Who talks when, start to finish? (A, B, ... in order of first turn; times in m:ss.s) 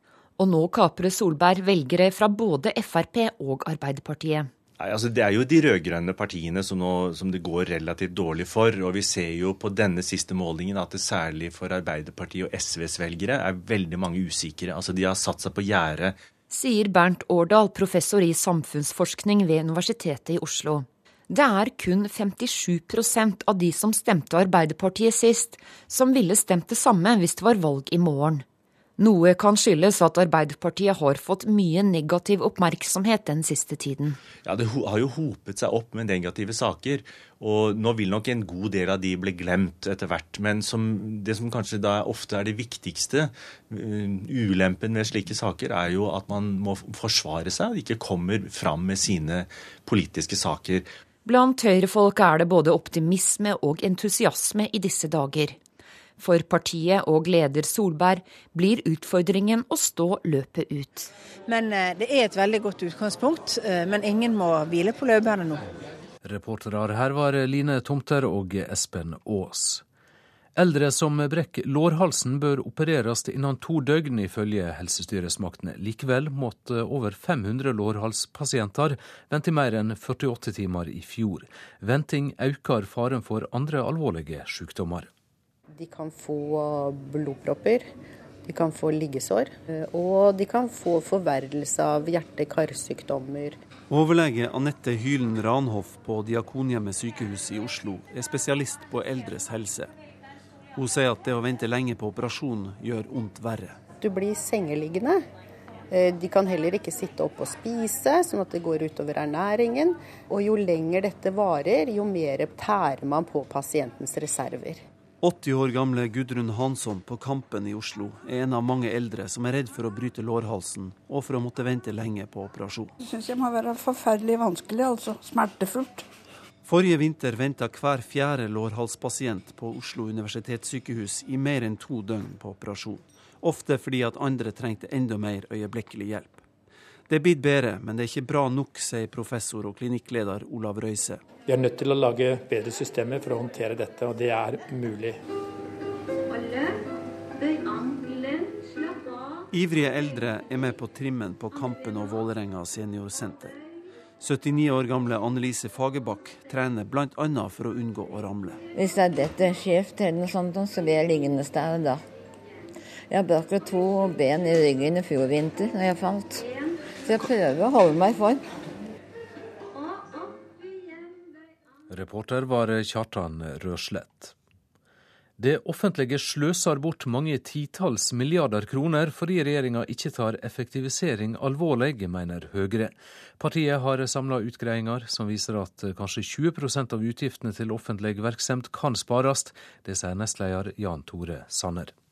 0:00.4-0:04.5 A
0:04.8-0:16.1 B
0:16.5-0:28.4 A
0:29.0-0:34.2 A
0:34.4-0:50.9 B
0:51.2-0:55.6 A
0:56.2-1:01.1 A
1:01.5-1:05.6 C
1:06.2-1:09.8 D
1:10.6-1:25.1 D
1:25.8-1:27.9 E
1:28.5-1:33.6 E
1:33.9-1:39.9 F
1:40.8-1:43.8 F
1:44.0-1:45.2 E
1:45.9-1:54.8 E
1:55.2-2:02.9 F
2:03.0-2:06.1 G
2:06.6-2:16.4 F
2:17.1-2:21.2 F
2:21.4-2:25.2 H
2:29.5-2:33.6 F
2:34.2-2:38.6 F
2:38.7-2:42.0 I
2:43.1-2:46.4 I
2:47.0-2:48.4 I
2:51.9-2:54.3 D
2:55.4-3:11.9 D